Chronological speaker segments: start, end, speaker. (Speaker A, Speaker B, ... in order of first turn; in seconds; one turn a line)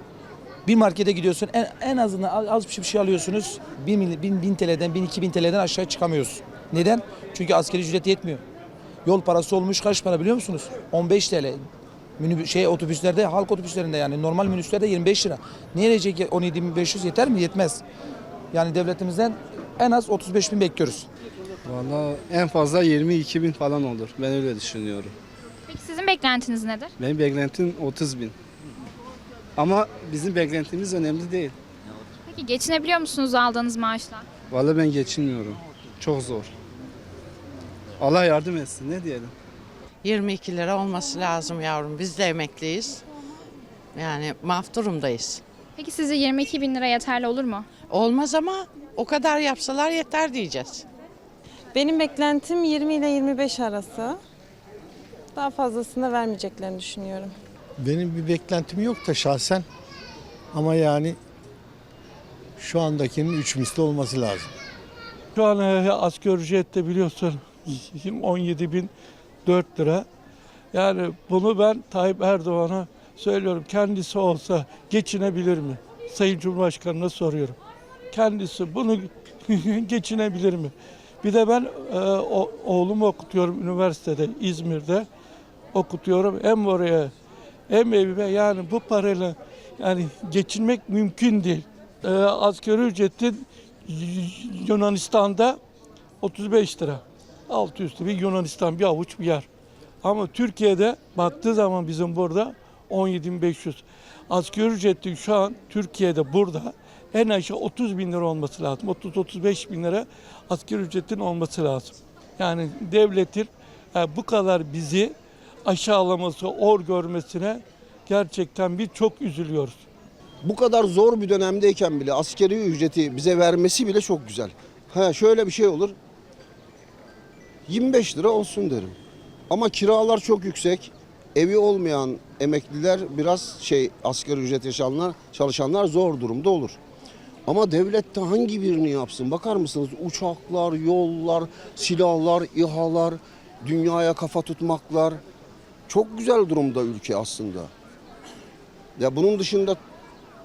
Speaker A: 0.7-8.4
Speaker A: 9.1-11.6
Speaker A: 12.2-17.8
Speaker A: 18.5-21.1
Speaker B: 21.7-25.1
Speaker C: 25.7-26.9
Speaker B: 27.0-28.4
Speaker B: 29.6-31.6
Speaker C: 32.3-34.3
Speaker B: 34.5-36.5
Speaker B: 38.0-39.3
Speaker D: 40.0-43.0
Speaker D: 43.9-45.4
Speaker C: 45.8-47.7
Speaker D: 47.9-50.9
Speaker E: 51.8-54.2
Speaker E: 55.4-57.3
Speaker F: 57.8-59.7
Speaker F: 60.5-61.2
Speaker F: 62.6-64.5
Speaker G: 65.4-68.9
Speaker G: 69.5-70.1
Speaker G: 70.7-77.6
Speaker G: 78.1-85.1
Speaker G: 85.7-87.1
Speaker G: 87.7-95.6
Speaker G: 96.2-99.5
Speaker G: 100.0-115.1
Speaker G: 115.7-119.8
Speaker H: 120.4-126.0
Speaker H: 127.7-129.0
Speaker H: 129.5-136.8
Speaker H: 137.5-145.2
Speaker H: 145.9-147.7
Speaker H: 149.0-149.8